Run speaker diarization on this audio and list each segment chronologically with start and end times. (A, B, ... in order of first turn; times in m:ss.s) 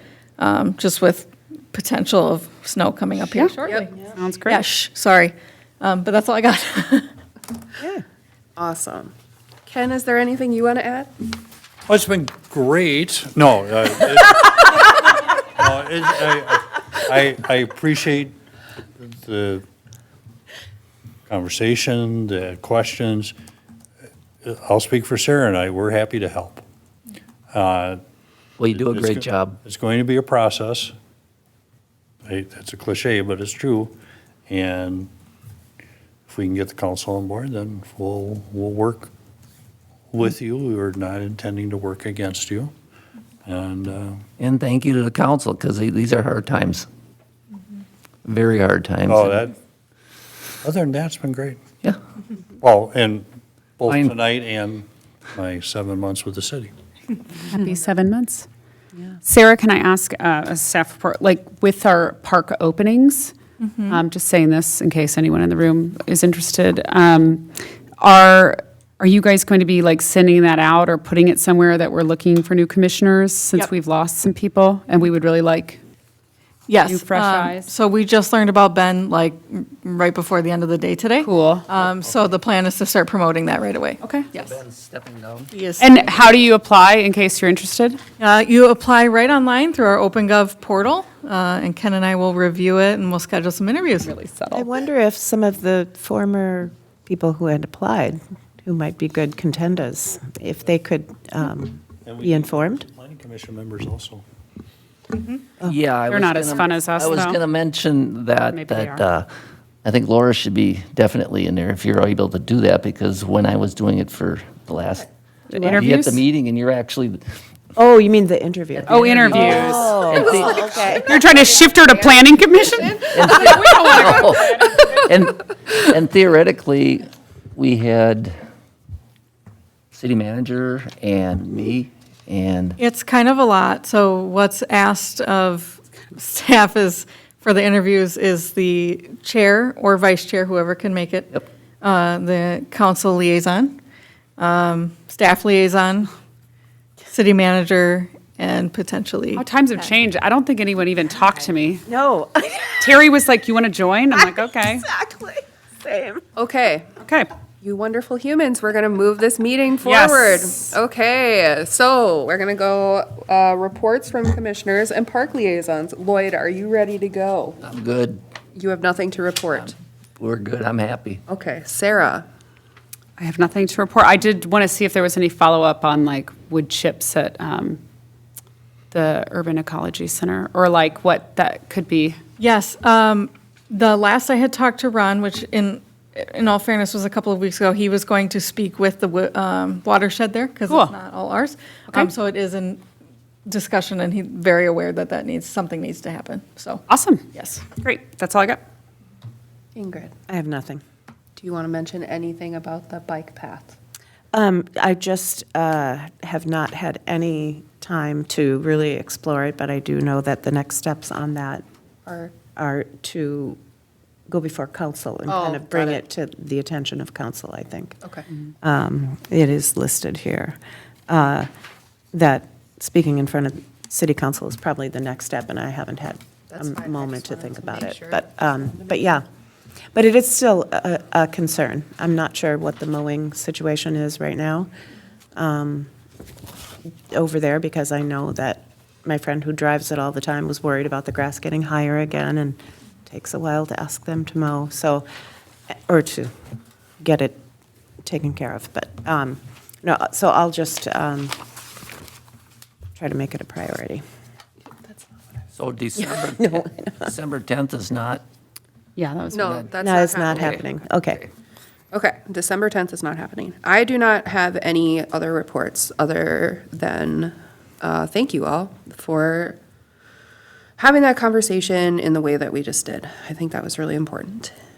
0:00.4-0:03.9 A
0:04.1-0:04.6 B
0:04.5-0:07.1 A
0:08.6-0:09.1 C
0:09.6-0:11.3 C
0:11.9-0:18.3 D
0:19.0-0:19.6 D
0:21.3-0:23.3 D
0:24.4-0:26.6 D
0:27.5-0:28.0 D
0:28.6-0:29.6 E
0:28.7-0:30.9 D
0:32.3-0:33.9 D
0:34.5-0:35.1 D
0:36.3-0:39.1 D
0:40.1-0:42.7 D
0:43.4-0:44.2 D
0:44.4-0:46.9 E
0:48.2-0:49.4 E
0:49.0-0:49.5 D
0:50.6-0:51.6 D
0:52.6-0:53.2 D
0:53.8-0:56.7 D
0:53.9-0:54.2 E
0:57.5-0:58.5 B
0:59.2-1:03.3 B
1:03.6-1:04.0 A
1:03.9-1:15.8 B
1:16.7-1:24.6 A
1:16.8-1:17.7 B
1:21.2-1:21.6 B
1:24.3-1:25.5 E
1:25.5-1:26.1 A
1:25.8-1:28.0 B
1:28.2-1:34.1 A
1:34.0-1:34.7 B
1:34.5-1:42.8 F
1:42.0-1:44.2 D
1:45.6-1:49.3 E
1:46.1-1:47.4 B
1:48.5-1:49.0 B
1:49.8-1:55.1 E
1:55.5-1:56.2 B
1:55.6-1:55.8 F
1:55.8-1:57.2 E
1:57.8-2:01.1 F
1:58.9-2:05.1 B
1:59.4-2:04.6 C
2:00.1-2:00.5 E
2:03.1-2:08.4 E
2:09.9-2:12.8 E
2:12.8-2:23.8 A
2:24.4-2:26.1 A
2:27.1-2:29.4 A
2:29.4-2:31.8 B
2:31.8-2:33.0 F
2:32.8-2:34.8 B
2:34.1-2:36.2 F
2:36.4-2:36.9 C
2:37.0-2:37.3 B
2:37.6-2:47.6 C
2:39.8-2:40.7 B
2:47.6-2:48.2 E
2:48.5-2:49.7 C
2:49.6-2:51.2 E
2:51.3-2:52.2 C
2:53.2-2:57.8 B
2:58.9-3:02.2 B
3:02.4-3:12.8 A
3:13.4-3:17.6 A
3:16.9-3:17.2 B
3:17.8-3:18.6 B
3:19.8-3:20.1 C
3:20.3-3:20.8 F
3:21.4-3:23.8 C
3:24.3-3:31.6 F
3:32.0-3:32.4 C
3:32.6-3:33.6 F
3:34.3-3:38.0 F
3:35.3-3:36.0 C
3:38.6-3:41.5 F
3:42.1-3:49.2 F
3:46.5-3:48.2 C
3:49.9-3:54.7 F
3:55.4-3:55.9 F
3:57.1-4:05.0 F
4:05.7-4:06.3 F
4:07.0-4:07.4 F
4:08.0-4:11.3 F
4:13.0-4:14.0 F
4:15.6-4:18.2 E
4:16.0-4:17.1 F
4:19.0-4:19.7 B
4:19.3-4:20.6 C
4:19.8-4:21.2 F
4:21.9-4:29.6 C
4:30.8-4:34.5 C